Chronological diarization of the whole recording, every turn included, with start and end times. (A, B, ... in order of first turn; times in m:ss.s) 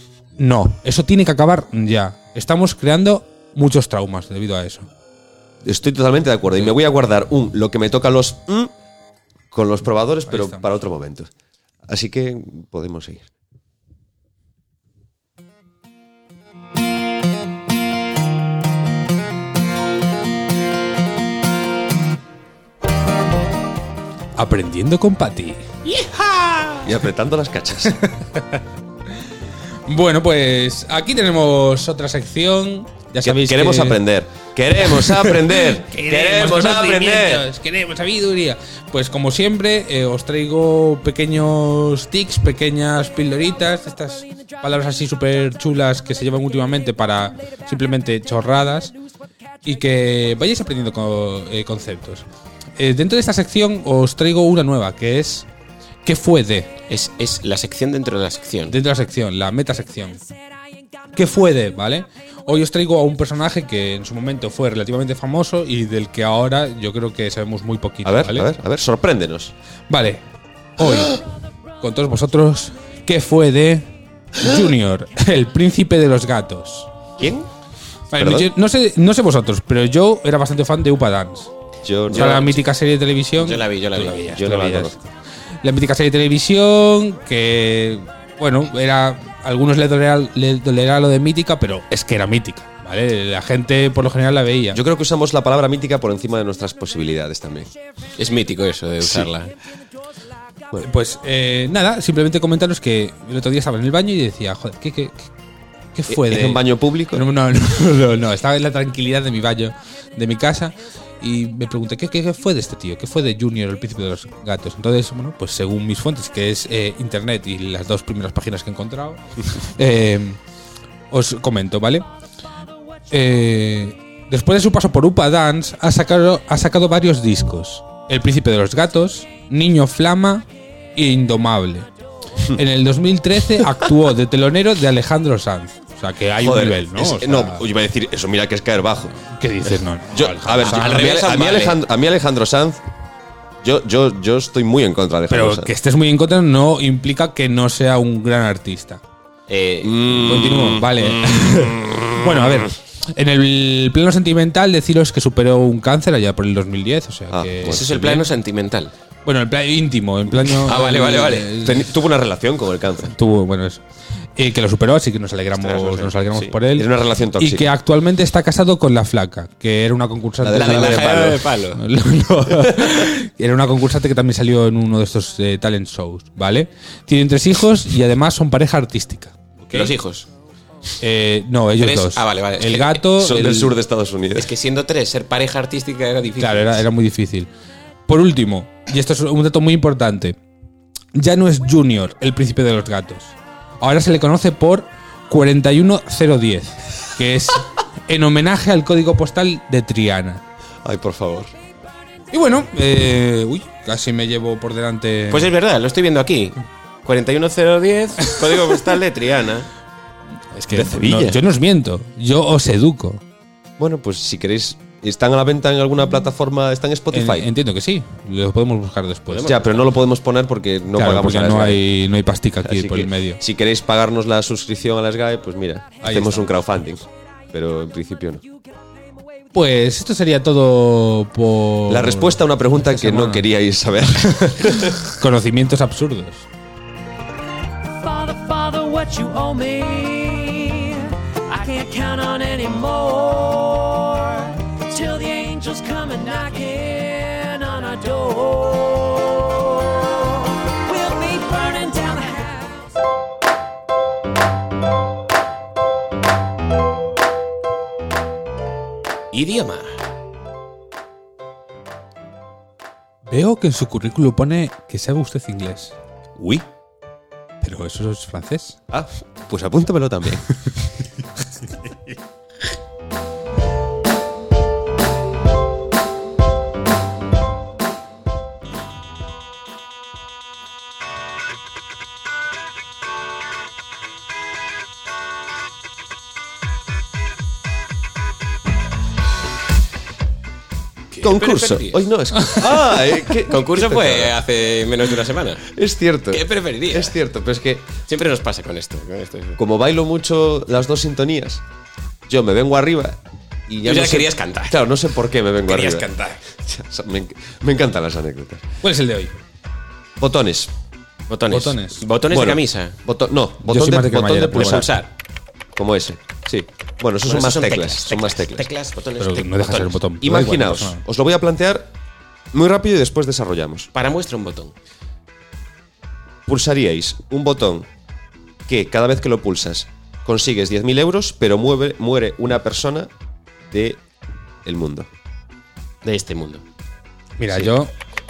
0:00.4-0:04.9 A
0:05.6-0:08.7 B
0:09.5-0:11.3 B
0:10.3-0:10.7 A
0:11.9-0:13.3 B
0:24.4-0:26.8 A
0:26.8-0:28.0 B
0:27.9-0:28.6 A
0:29.9-0:34.0 A
0:33.2-0:37.4 B
0:34.8-0:48.9 A
0:49.6-0:52.2 A
0:52.8-0:55.5 A
0:56.0-0:56.7 A
0:56.9-0:58.7 C
0:58.7-1:00.2 A
1:01.1-1:08.5 A
1:08.0-1:09.5 B
1:09.9-1:10.2 A
1:10.8-1:11.2 A
1:11.8-1:13.8 A
1:14.4-1:16.9 A
1:17.2-1:17.5 B
1:18.1-1:21.5 A
1:18.1-1:18.5 B
1:21.8-1:22.4 B
1:22.1-1:25.0 A
1:22.1-1:22.6 C
1:23.4-1:24.3 C
1:24.2-1:25.0 B
1:25.6-1:34.8 A
1:34.7-1:37.7 B
1:38.2-1:39.5 C
1:39.0-1:39.3 B
1:40.8-1:45.3 A
1:45.9-2:00.4 A
1:46.1-1:47.2 B
2:01.1-2:02.0 A
2:03.1-2:11.9 A
2:12.5-2:17.6 A
2:16.4-2:19.2 B
2:19.4-2:21.1 A
2:20.1-2:22.8 B
2:20.6-2:21.8 C
2:23.6-2:25.7 B
2:25.3-2:29.0 A
2:29.5-2:30.2 C
2:29.8-2:32.7 B
2:30.2-2:38.3 A
2:37.3-2:37.8 B
2:37.6-2:38.9 C
2:39.2-2:41.9 A
2:40.5-2:41.5 C
2:41.5-2:43.1 B
2:43.1-2:43.8 A
2:44.4-2:59.9 A
2:45.6-2:46.5 C
2:46.7-2:47.7 B
2:50.4-2:51.4 B
2:50.5-2:51.8 C
2:59.7-3:00.3 C
3:01.0-3:03.7 A
3:01.8-3:03.1 C
3:03.2-3:04.5 B
3:04.3-3:06.8 C
3:06.4-3:07.5 A
3:08.1-3:10.4 A
3:11.1-3:20.4 A
3:20.8-3:21.5 B
3:22.3-3:25.5 A
3:25.3-3:29.7 C
3:30.5-3:33.2 A
3:30.7-3:31.4 B
3:33.8-3:37.5 B
3:37.1-3:39.6 A
3:39.3-3:39.9 C
3:39.4-3:41.8 B
3:40.9-3:43.4 A
3:42.6-3:48.4 B
3:46.0-3:46.6 A
3:49.5-3:53.4 A
3:51.9-3:55.0 B
3:54.3-3:56.5 A
3:57.9-4:12.9 D
4:19.3-4:20.0 C
4:23.3-4:25.9 A
4:26.4-4:26.6 B
4:27.6-4:28.8 A
4:28.9-4:30.4 B
4:51.1-4:55.7 C
4:51.2-4:54.4 B
4:55.7-4:58.0 B
4:56.3-4:57.2 C
4:58.1-4:59.6 C
4:59.6-5:01.6 B
5:02.3-5:08.6 B
5:03.8-5:04.8 C
5:05.6-5:06.6 C
5:08.8-5:09.4 A
5:10.2-5:10.7 B
5:11.3-5:13.0 C
5:11.5-5:12.0 A
5:12.3-5:15.0 B
5:13.6-5:14.8 A
5:14.6-5:15.1 C
5:15.8-5:18.7 B
5:17.2-5:20.0 C
5:19.2-5:21.0 A
5:20.2-5:21.9 B
5:22.5-5:23.9 B
5:23.9-5:24.7 C
5:26.5-5:27.9 B
5:28.7-5:33.1 B
5:33.7-5:34.0 B
5:34.6-5:35.1 B
5:36.0-5:36.6 C
5:37.4-5:37.9 A